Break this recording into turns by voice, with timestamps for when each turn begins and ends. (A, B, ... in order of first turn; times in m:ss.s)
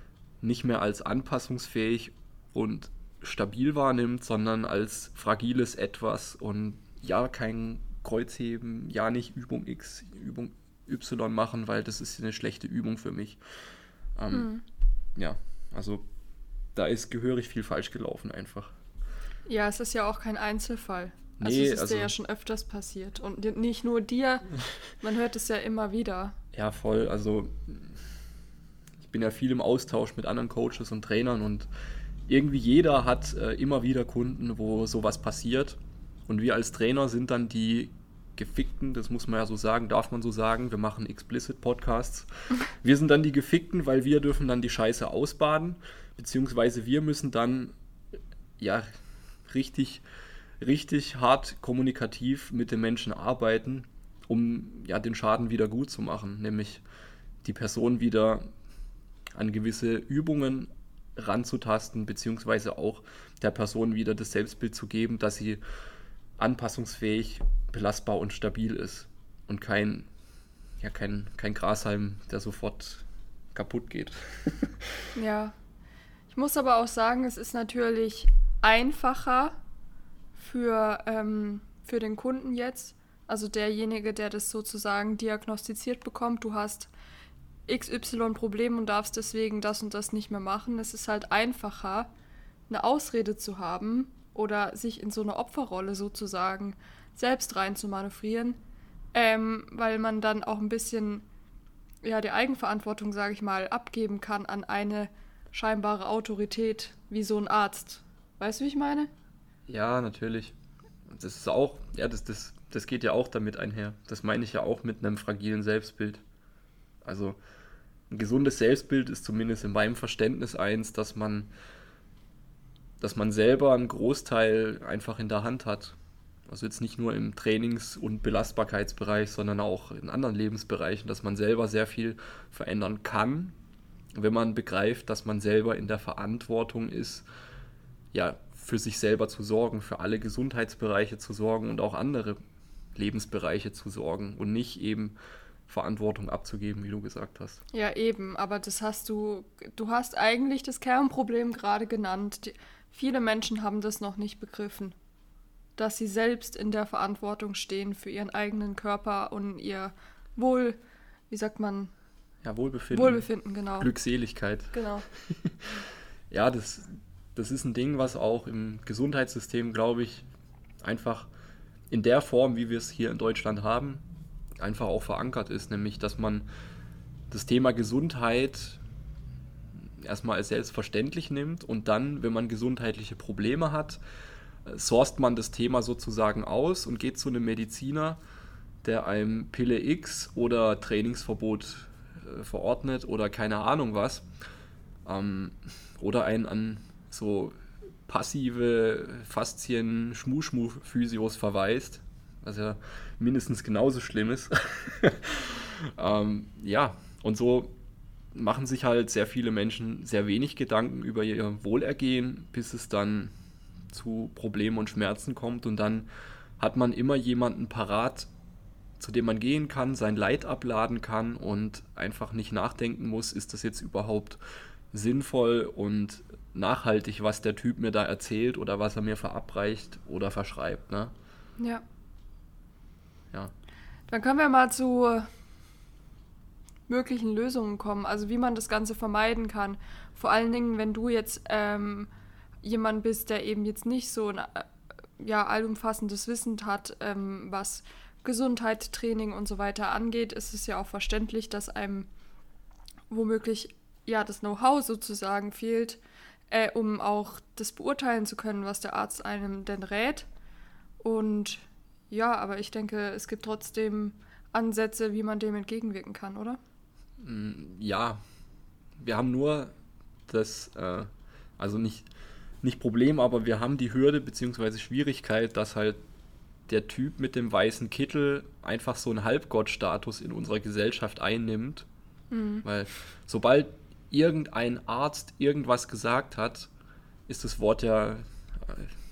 0:00.4-0:13.4 A
0:14.2-0:14.5 A
0:14.3-0:14.6 B
0:15.2-0:16.0 A
0:16.8-0:18.8 A
0:19.5-0:26.4 B
0:21.4-0:22.1 A
0:26.5-0:28.0 A
0:29.0-0:31.7 A
0:32.3-0:47.7 A
0:48.6-0:48.9 A
0:49.5-0:50.0 A
0:50.6-0:56.8 A
0:57.4-0:58.5 A
0:59.4-1:05.6 A
1:06.4-1:10.1 A
1:10.8-1:15.1 A
1:15.2-1:15.6 B
1:16.3-1:19.6 B
1:20.4-1:26.9 B
1:27.7-1:32.1 B
1:32.7-1:38.6 B
1:39.1-1:41.3 B
1:42.0-1:49.1 B
1:49.7-1:50.6 A
1:51.1-1:56.2 A
1:57.0-1:57.4 A
1:58.1-2:01.5 A
2:03.0-2:06.0 A
2:06.5-2:13.6 A
2:14.2-2:17.3 A
2:18.1-2:22.4 A
2:23.0-2:25.2 A
2:25.7-2:27.6 A
2:27.7-2:35.0 B
2:35.8-2:40.8 B
2:41.3-2:41.9 B
2:42.4-2:43.3 A
2:42.9-2:43.9 B
2:43.8-2:45.8 A
2:44.7-2:45.1 B
2:46.3-2:50.3 A
2:50.8-2:51.3 A
2:51.9-2:54.0 A
2:54.6-2:56.5 A
2:57.3-2:58.8 A
3:00.0-3:04.0 A
3:04.6-3:08.2 A
3:08.8-3:14.2 A
3:15.0-3:17.6 A
3:18.1-3:27.7 A
3:28.4-3:33.3 A
3:33.9-3:36.1 A
3:36.6-3:38.3 A
3:39.0-3:44.4 A
3:44.9-3:51.1 A
3:51.6-3:51.8 B
3:54.1-3:55.3 B
3:56.9-4:02.1 B
4:02.6-4:12.1 B
4:13.1-4:20.3 B
4:21.0-4:26.6 B
4:27.2-4:28.2 A
4:29.0-4:29.7 A
4:30.3-4:32.1 A
4:32.6-4:36.0 A
4:36.7-4:41.9 A
4:42.3-4:42.6 B
4:42.6-4:46.7 A
4:47.3-4:48.9 A